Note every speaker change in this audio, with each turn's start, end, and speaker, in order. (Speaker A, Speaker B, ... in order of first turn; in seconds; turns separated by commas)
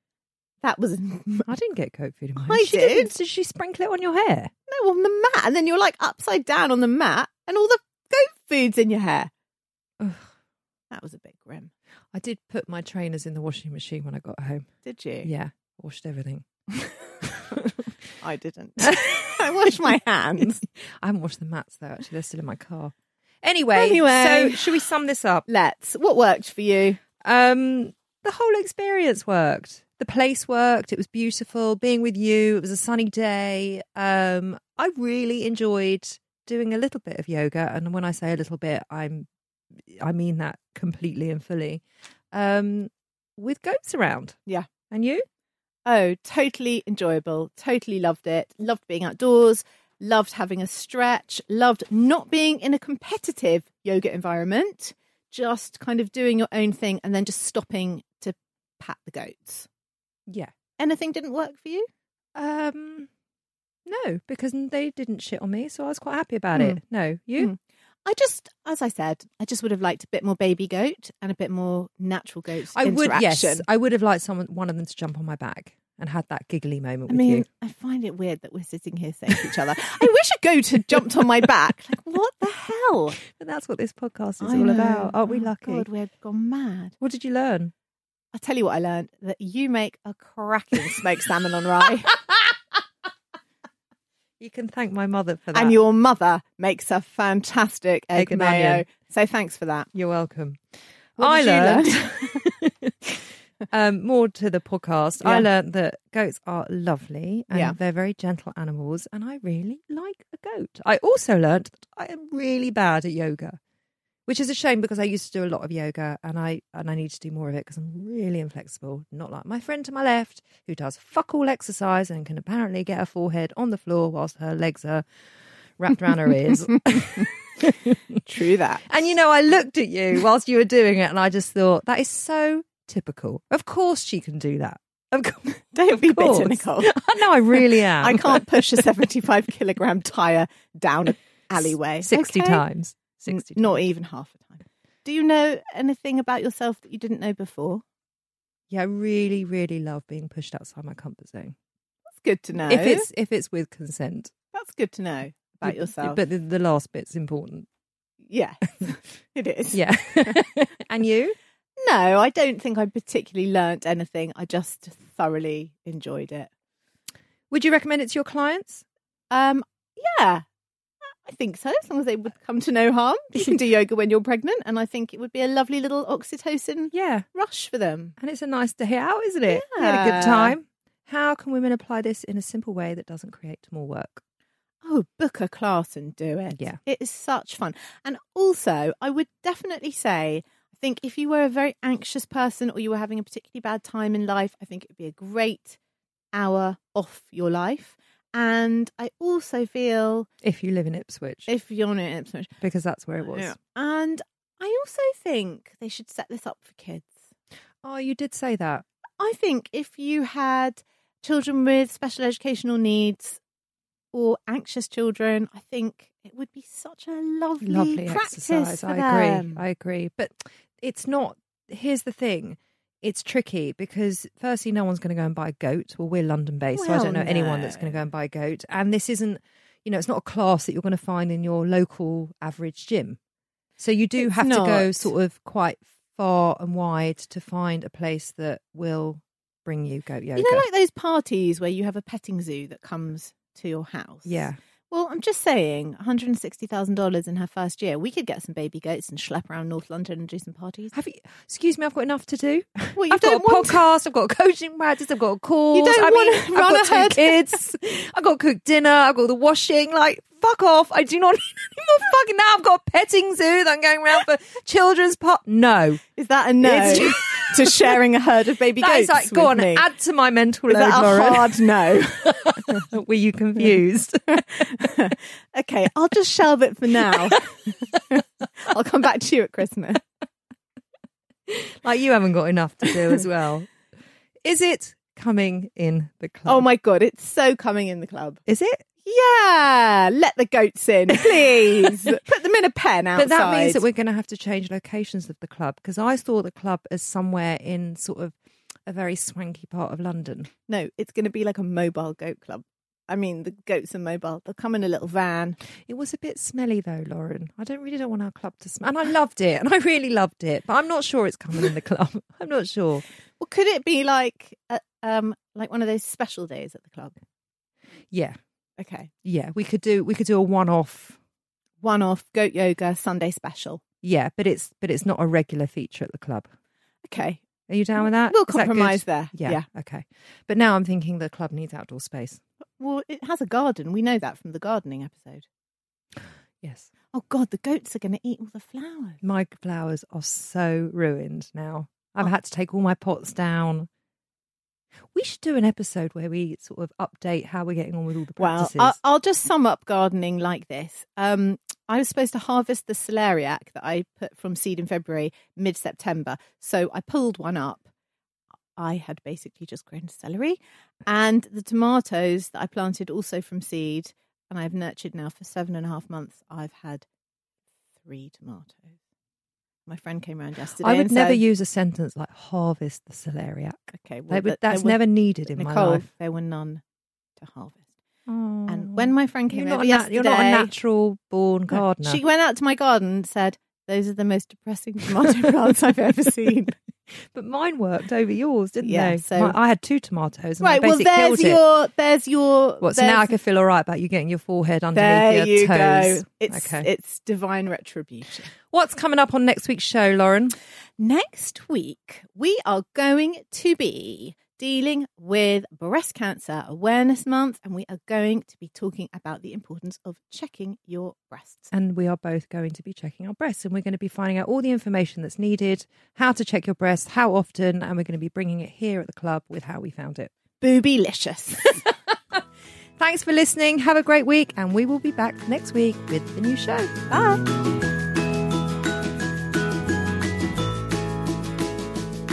Speaker A: 0.6-1.5, Speaker B: 1.5-4.5, Speaker A: 2.4-3.1, Speaker A: 4.7-9.3, Speaker B: 10.0-10.3, Speaker A: 10.9-11.7, Speaker B: 12.1-14.7, Speaker A: 14.8-15.3, Speaker B: 15.2-16.5, Speaker B: 17.2-17.8, Speaker A: 18.2-20.6, Speaker B: 18.9-19.7, Speaker B: 20.8-25.4, Speaker A: 23.7-24.9, Speaker A: 25.5-27.0, Speaker B: 27.2-39.3, Speaker B: 39.9-44.4, Speaker B: 44.9-45.2, Speaker A: 45.9-59.7, Speaker A: 60.8-61.9, Speaker B: 62.4-63.1, Speaker B: 63.9-67.5, Speaker A: 66.5-66.8, Speaker A: 67.4-73.6, Speaker B: 72.7-77.5, Speaker A: 77.1-83.2, Speaker B: 83.2-85.9, Speaker A: 84.4-86.9, Speaker B: 87.0-87.7, Speaker A: 88.3-92.1, Speaker B: 94.4-95.7, Speaker A: 95.5-99.9, Speaker B: 98.2-98.8, Speaker B: 99.9-100.6, Speaker B: 101.2-113.6, Speaker A: 101.2-102.4, Speaker A: 105.2-105.5, Speaker A: 107.5-107.8, Speaker B: 114.3-125.1, Speaker B: 125.8-128.2, Speaker A: 128.2-129.0, Speaker B: 128.9-138.8, Speaker A: 135.7-142.6, Speaker B: 142.0-143.8, Speaker A: 143.2-147.8, Speaker B: 148.7-151.6, Speaker A: 152.1-153.1, Speaker B: 152.7-154.3, Speaker A: 154.5-156.2, Speaker B: 155.6-157.7, Speaker A: 158.3-160.5, Speaker B: 159.7-161.4, Speaker A: 161.8-166.5, Speaker B: 167.5-168.8, Speaker A: 169.3-170.4, Speaker A: 171.2-178.1, Speaker B: 176.9-177.2, Speaker B: 178.2-184.2, Speaker A: 179.5-180.5, Speaker A: 184.8-195.8, Speaker A: 196.3-200.3, Speaker B: 200.4-201.5, Speaker A: 201.5-202.5, Speaker B: 202.6-203.5, Speaker A: 203.2-207.2, Speaker B: 207.8-208.8, Speaker A: 209.2-213.4, Speaker A: 214.1-219.6, Speaker B: 217.6-233.2, Speaker A: 226.8-228.0, Speaker B: 233.8-240.6, Speaker A: 234.2-235.1, Speaker A: 240.4-250.9, Speaker B: 244.2-244.6, Speaker B: 250.9-266.0, Speaker A: 252.9-253.8, Speaker A: 255.7-257.6, Speaker A: 266.1-269.9, Speaker B: 266.6-267.9, Speaker B: 268.8-271.7, Speaker A: 270.7-272.8, Speaker B: 272.2-274.9, Speaker A: 274.8-280.0, Speaker B: 281.5-283.7, Speaker B: 284.4-286.7, Speaker A: 286.4-288.4, Speaker B: 288.5-288.8, Speaker A: 289.0-293.8, Speaker B: 291.2-291.9, Speaker B: 293.1-300.5, Speaker A: 300.7-305.6, Speaker B: 305.9-313.0, Speaker A: 313.4-317.1, Speaker B: 318.1-318.4, Speaker A: 318.8-319.1, Speaker B: 319.2-321.2, Speaker A: 321.8-323.8, Speaker B: 324.0-326.5, Speaker A: 327.1-327.4, Speaker B: 327.7-332.4, Speaker A: 328.0-329.6, Speaker A: 332.8-335.4, Speaker B: 336.6-336.9, Speaker A: 337.1-339.2, Speaker B: 339.2-343.9, Speaker B: 345.1-348.9, Speaker A: 348.4-357.9, Speaker A: 358.8-367.1, Speaker A: 368.0-368.9, Speaker A: 369.9-371.4, Speaker B: 370.8-376.1, Speaker A: 374.0-376.8, Speaker A: 377.4-377.9, Speaker B: 378.3-382.2, Speaker A: 378.7-380.7, Speaker A: 381.7-386.7, Speaker B: 387.1-391.6, Speaker A: 388.8-389.6, Speaker A: 390.6-393.3, Speaker B: 392.8-396.9, Speaker A: 394.9-398.5, Speaker B: 398.7-400.6, Speaker A: 401.0-411.7, Speaker B: 411.7-420.3, Speaker A: 420.6-421.8, Speaker B: 421.9-422.4, Speaker B: 423.0-426.9, Speaker A: 427.1-427.4